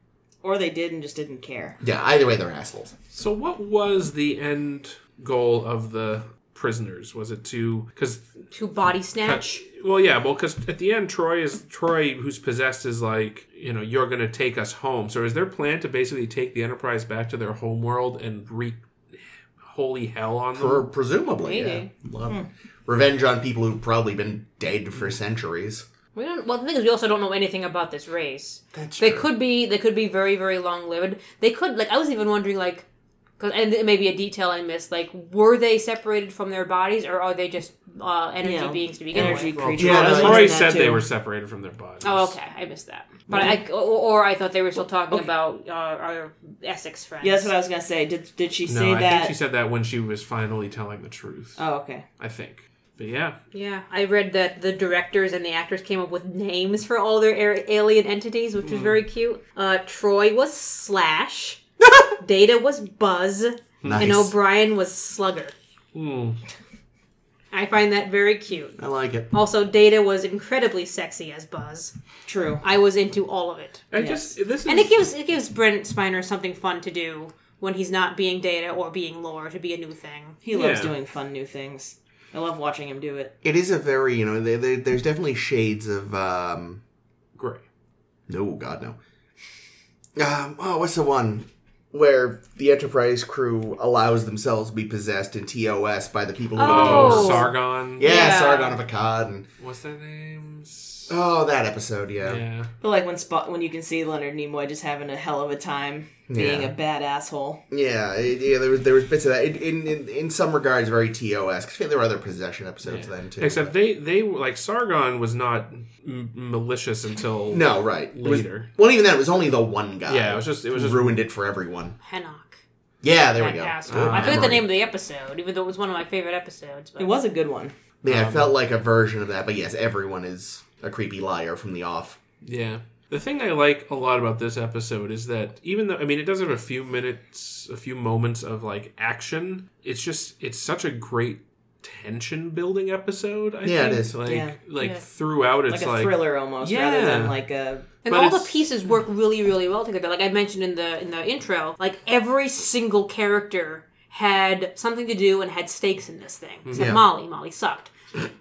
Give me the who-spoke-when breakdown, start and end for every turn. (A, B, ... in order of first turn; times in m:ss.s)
0:00.4-0:01.8 A
0:01.8-0:02.9 B
0:03.1-0:08.3 C
0:08.5-0:09.6 D
0:09.2-0:20.9 C
0:20.6-0:25.8 B
0:21.4-0:21.9 D
0:26.2-0:32.8 D
0:28.7-0:29.3 B
0:33.4-0:39.6 D
0:38.4-0:41.0 A
0:39.2-0:42.4 C
0:39.8-0:40.5 B
0:42.0-0:47.5 D
0:43.3-0:43.6 A
0:47.2-0:49.3 A
0:48.7-0:51.6 C
0:51.6-0:52.0 A
0:52.2-0:53.4 C
0:53.5-1:01.6 D
0:58.6-0:59.0 C
1:02.2-1:05.6 D
1:03.8-1:04.2 C
1:03.8-1:04.4 B
1:05.9-1:06.4 C
1:07.5-1:08.8 D
1:08.8-1:09.3 B
1:09.3-1:11.9 D
1:12.3-1:12.6 A
1:12.6-1:13.9 D
1:13.9-1:15.0 C
1:14.0-1:14.4 A
1:14.7-1:20.4 D
1:20.4-1:23.3 A
1:20.5-1:21.0 C
1:23.4-1:26.8 B
1:27.4-1:27.6 C
1:28.3-1:29.0 B
1:30.2-1:39.5 B
1:36.6-1:38.8 D
1:36.6-1:38.1 C
1:39.6-1:41.2 C
1:41.1-1:42.4 B
1:42.2-1:42.7 C
1:42.8-1:47.6 A
1:46.3-1:46.8 B
1:47.7-1:53.7 B
1:52.8-1:58.7 C
1:57.5-2:02.0 B
2:00.1-2:01.2 C
2:02.0-2:02.6 D
2:03.0-2:04.7 B
2:03.4-2:07.1 D
2:03.9-2:04.6 C
2:07.0-2:07.7 A
2:08.0-2:12.2 B
2:08.1-2:08.5 C
2:12.4-2:27.4 C
2:23.6-2:24.2 B
2:24.2-2:24.6 A
2:24.8-2:25.0 D
2:25.7-2:27.9 A
2:28.0-2:28.7 C
2:28.0-2:37.9 D
2:36.7-2:37.0 C
2:36.7-2:37.0 B